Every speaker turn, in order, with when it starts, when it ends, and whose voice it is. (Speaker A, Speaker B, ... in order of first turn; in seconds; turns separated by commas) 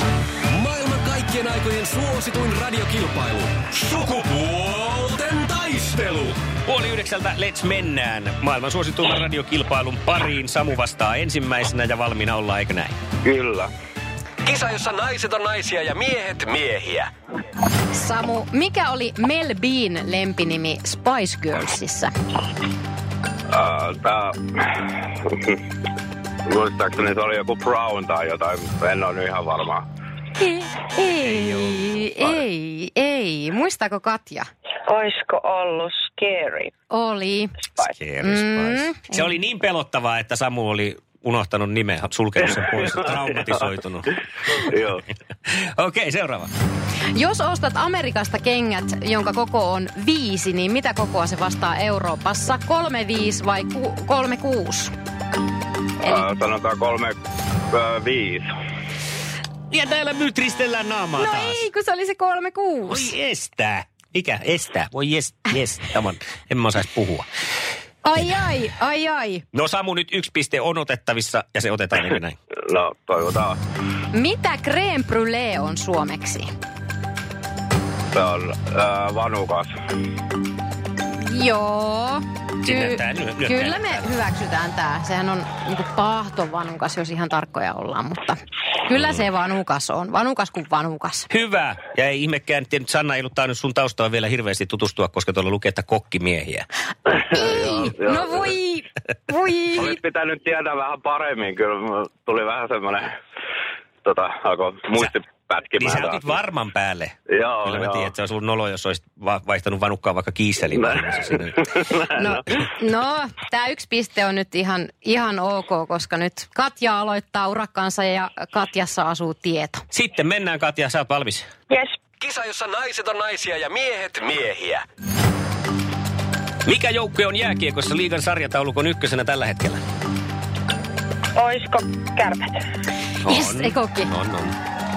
Speaker A: 0.5-6.4, Speaker B: 6.7-12.9, Speaker C: 13.2-13.7, Speaker A: 14.4-17.1, Speaker D: 17.9-22.1, Speaker C: 23.5-25.6, Speaker C: 26.5-29.8, Speaker D: 30.4-34.5, Speaker B: 31.2-32.4, Speaker E: 34.9-36.7, Speaker D: 36.9-37.7, Speaker B: 37.8-44.5, Speaker D: 38.2-39.3, Speaker C: 44.6-45.0, Speaker B: 45.5-46.5, Speaker D: 47.1-54.9, Speaker C: 56.0-57.2, Speaker C: 57.7-58.5, Speaker B: 59.7-61.6, Speaker D: 61.2-63.1, Speaker B: 62.9-67.3, Speaker D: 68.0-69.4, Speaker B: 69.5-72.4, Speaker C: 72.7-73.6, Speaker D: 74.1-76.5, Speaker C: 78.1-79.7, Speaker D: 81.2-91.3, Speaker B: 82.6-84.1, Speaker B: 88.9-89.2, Speaker B: 91.3-96.7, Speaker C: 97.1-98.4, Speaker D: 97.3-100.0, Speaker C: 99.8-103.1, Speaker C: 104.0-106.3, Speaker B: 105.8-111.6, Speaker C: 107.3-108.1, Speaker C: 110.7-112.4, Speaker D: 112.1-119.8, Speaker B: 119.9-121.5, Speaker E: 121.7-122.0, Speaker A: 122.2-124.8, Speaker B: 126.7-129.8, Speaker E: 131.4-132.5, Speaker B: 133.2-134.6, Speaker D: 133.2-134.1